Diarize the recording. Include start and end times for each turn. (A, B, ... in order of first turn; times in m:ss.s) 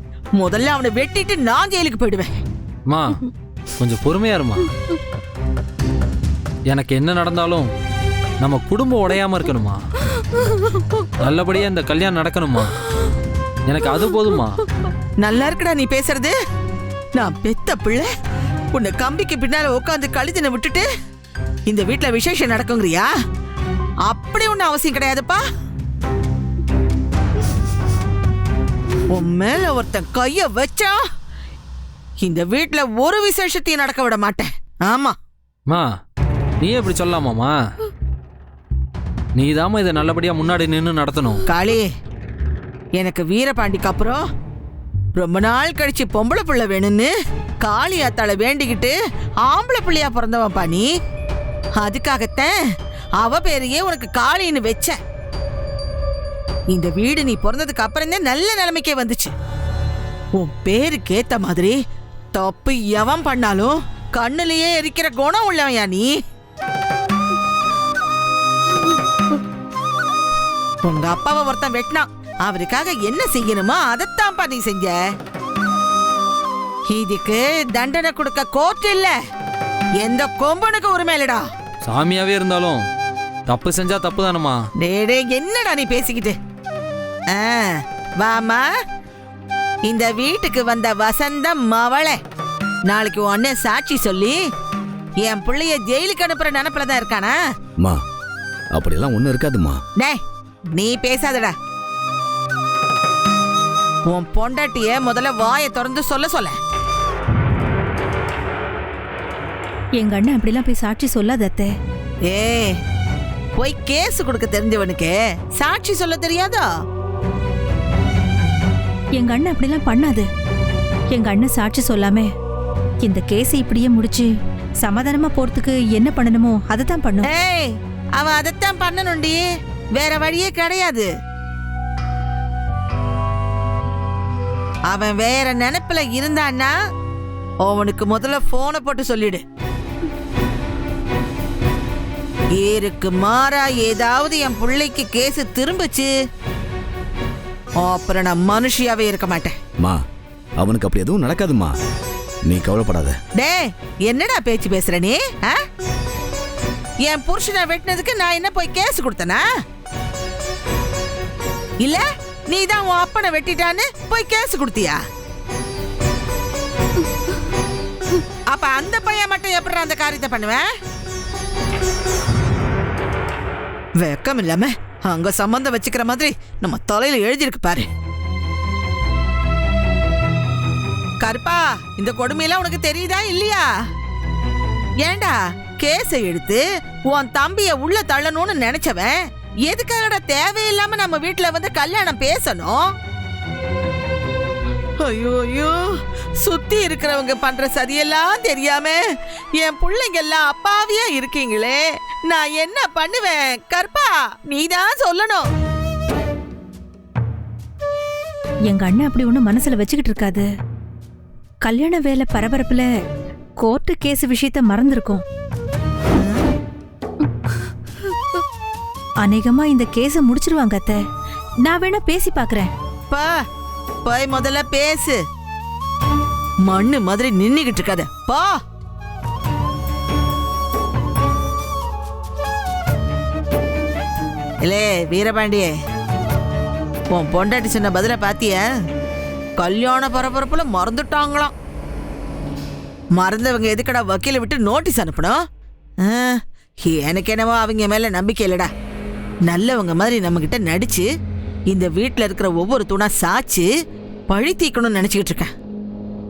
0:00.4-0:02.3 A
0:02.9-0:03.2 B
0:03.8-0:04.7 B
0:06.7-0:07.7 B
0:08.4-0:09.8 B
0:11.2-0:12.7 B
0:13.6-0:14.6 B
0:15.2-0:16.4 A
0:17.2-0:18.1 A
0:18.7-0:20.9 A
0:21.7-0:23.1 A
0:24.1-0:25.4 A
0:29.1-0:31.0 A
0:32.2-0:35.2 A
0:36.6-0:37.6 B
0:39.4-0:41.4 B
0:41.5-0:41.9 A
0:43.0-0:44.2 A
0:45.2-0:47.1 A
0:47.6-0:50.9 A
0:51.8-0:52.6 A
0:53.2-0:55.0 A
0:56.7-0:59.3 A
1:00.4-1:01.8 A
1:02.4-1:06.1 A
1:10.8-1:15.0 A
1:16.9-1:19.2 A
1:20.0-1:21.4 A
1:21.9-1:22.8 B
1:23.5-1:24.6 B
1:24.8-1:26.4 A
1:27.3-1:28.7 A
1:29.9-1:32.2 A
1:32.9-1:34.4 A
1:35.2-1:37.4 A
1:38.8-1:39.8 C
1:40.8-1:41.6 A
1:44.1-1:46.6 A
1:50.0-1:51.7 D
1:52.3-1:52.8 A
1:53.6-1:56.7 A
1:59.2-2:00.2 D
2:01.1-2:02.3 D
2:03.0-2:04.3 D
2:04.8-2:07.3 D
2:07.2-2:09.4 A
2:10.0-2:11.1 A
2:14.9-2:16.7 A
2:17.6-2:19.4 A
2:22.6-2:26.1 A
2:27.8-2:29.6 A
2:30.6-2:31.7 C
2:32.5-2:33.2 C
2:33.4-2:35.6 A
2:37.0-2:39.4 A
2:41.8-2:45.0 A
2:48.5-2:50.7 A
2:54.0-2:57.9 A
3:01.2-3:03.7 A
3:05.0-3:12.8 A
3:15.0-3:15.8 A
3:16.4-3:19.0 A
3:19.6-3:25.5 A
3:28.7-3:30.5 D
3:31.6-3:32.9 D
3:33.6-3:35.2 D
3:36.2-3:36.5 A
3:39.2-3:41.0 D
3:41.6-3:42.7 D
3:44.0-3:45.2 A
3:46.6-3:48.5 A
3:54.6-3:55.7 A
3:57.1-3:58.6 A
3:59.6-4:01.5 A
4:03.2-4:05.4 A
4:06.0-4:08.7 A
4:09.5-4:11.0 A
4:11.7-4:13.7 A
4:14.3-4:15.5 A